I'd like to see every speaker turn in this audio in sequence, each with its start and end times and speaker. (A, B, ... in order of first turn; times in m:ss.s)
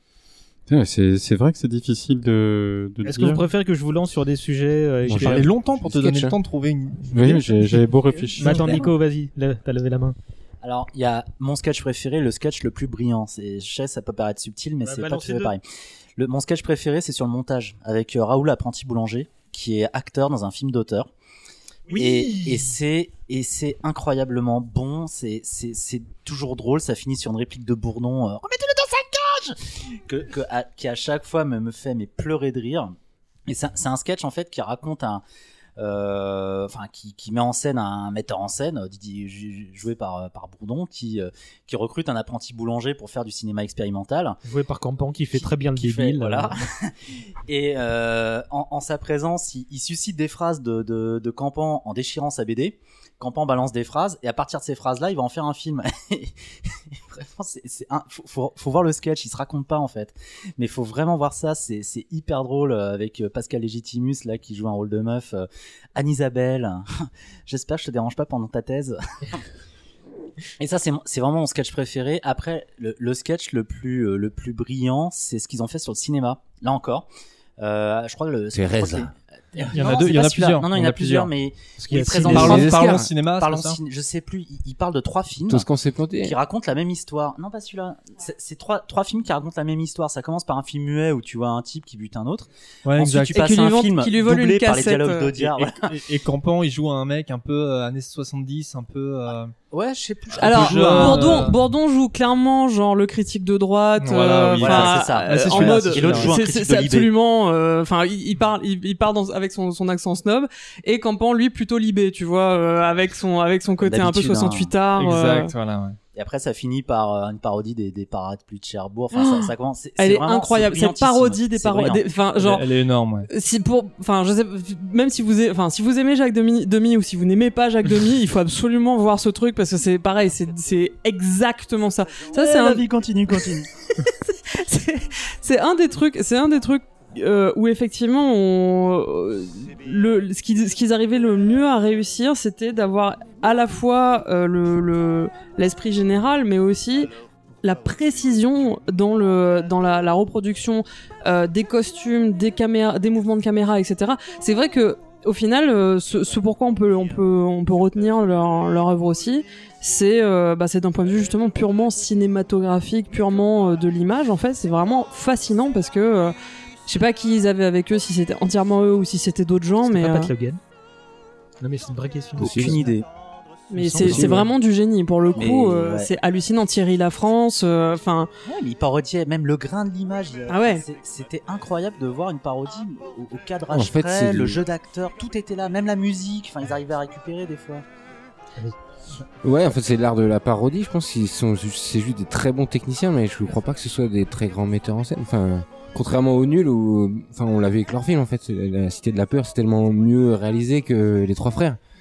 0:00.7-0:03.5 A
0:03.0-0:05.4 B
0:05.0-0:06.4 C
0:05.1-0:08.5 D
0:07.1-0:08.9 A
0:08.4-0:10.2 B
0:10.6-0:15.6 E
0:14.8-0:15.5 B
0:16.2-0:21.1 E
0:21.9-0:22.7 B
0:21.9-0:32.9 E
0:33.5-0:35.2 E
0:35.8-0:44.4 E
0:44.4-0:46.5 B
0:45.3-0:46.9 E
0:47.4-1:09.0 E
1:10.6-1:17.1 E
1:17.6-1:25.7 E
1:18.5-1:19.1 C
1:19.7-1:21.3 D
1:21.8-1:22.6 B
1:22.2-1:23.1 C
1:22.3-1:23.8 D
1:25.5-1:26.4 C
1:26.2-1:36.0 E
1:32.8-1:33.5 D
1:33.3-1:35.4 F
1:35.8-1:39.5 D
1:39.7-1:41.5 E
1:40.4-1:41.5 D
1:40.4-1:55.5 F
1:44.0-1:46.3 D
1:44.6-1:47.1 E
1:53.8-1:54.7 E
1:55.0-1:56.0 D
1:56.1-2:02.0 E
1:59.1-2:02.6 F
2:02.3-2:03.3 D
2:03.3-2:12.8 F
2:12.3-2:13.7 E
2:14.0-2:46.3 F
2:46.9-2:50.3 F
2:49.8-2:50.6 B
2:51.6-2:52.8 B
2:52.4-2:52.8 C
2:52.4-2:53.1 E
2:53.7-2:58.3 F
2:53.8-2:54.4 B
2:54.0-2:54.5 C
2:55.4-2:56.1 E
2:58.4-3:07.8 E
3:00.5-3:00.8 F
3:03.7-3:04.6 C
3:09.4-3:21.8 C